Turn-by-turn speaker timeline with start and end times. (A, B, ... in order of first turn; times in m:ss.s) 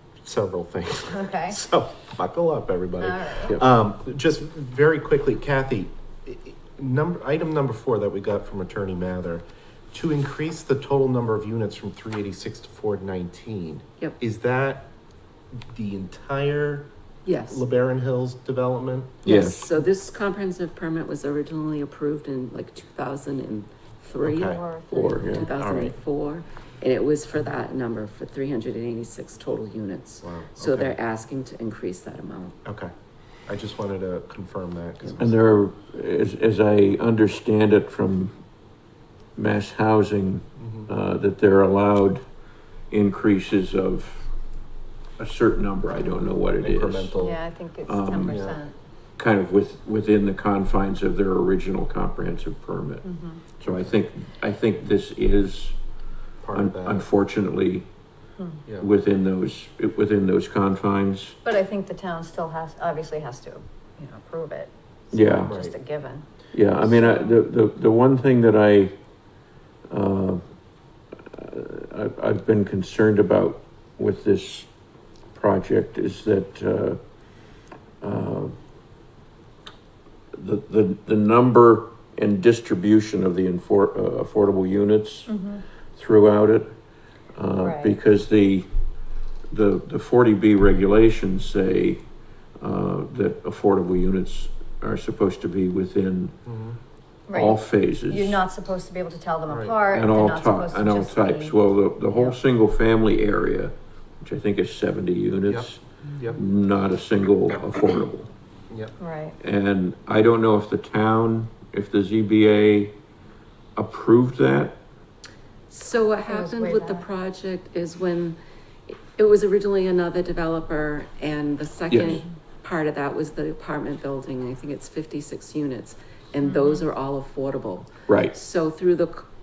0:00.2-0:14.9 A
0:01.1-0:01.6 B
0:03.0-0:03.6 B
0:15.7-0:19.2 A
0:17.2-0:17.6 C
0:19.2-0:19.7 D
0:19.2-0:32.6 C
0:24.2-0:24.6 A
0:24.5-0:25.6 B
0:24.9-0:25.5 D
0:25.5-0:25.9 A
0:30.2-0:31.0 A
0:32.6-0:32.9 A
0:33.5-0:35.4 A
0:35.2-0:38.4 D
0:39.4-0:42.2 D
0:40.6-0:40.9 A
0:42.9-0:44.3 D
0:45.2-0:47.1 D
0:46.6-0:47.4 A
0:47.2-0:48.8 B
0:47.8-0:48.4 D
0:48.3-0:48.6 A
0:49.2-0:53.0 D
0:53.0-0:53.4 B
0:53.6-0:55.8 D
0:56.4-0:57.1 A
0:56.5-0:57.9 D
0:58.4-0:58.6 B
0:58.8-1:01.4 D
1:01.4-1:06.3 B
1:05.1-1:05.6 D
1:05.5-1:05.7 A
1:06.5-1:08.9 D
1:06.8-1:07.3 B
1:09.9-1:10.4 D
1:11.3-1:14.7 D
1:15.3-1:17.0 D
1:18.0-1:18.6 D
1:20.3-1:25.3 D
1:25.3-1:25.6 B
1:25.9-1:26.7 D
1:27.3-1:28.7 D
1:27.6-1:28.0 B
1:29.5-1:32.0 D
1:32.6-1:36.3 D
1:36.4-1:36.8 A
1:37.3-1:41.6 B
1:37.3-1:38.4 D
1:39.5-1:39.8 A
1:39.9-1:45.8 D
1:42.1-1:42.4 B
1:45.5-1:46.4 A
1:46.3-1:48.3 D
1:48.7-1:48.9 A
1:49.0-1:49.4 B
1:49.4-1:52.9 D
1:53.8-1:54.8 D
1:55.7-2:09.3 C
1:56.3-1:57.1 B
2:01.9-2:02.2 D
2:06.4-2:06.8 B
2:08.1-2:08.4 D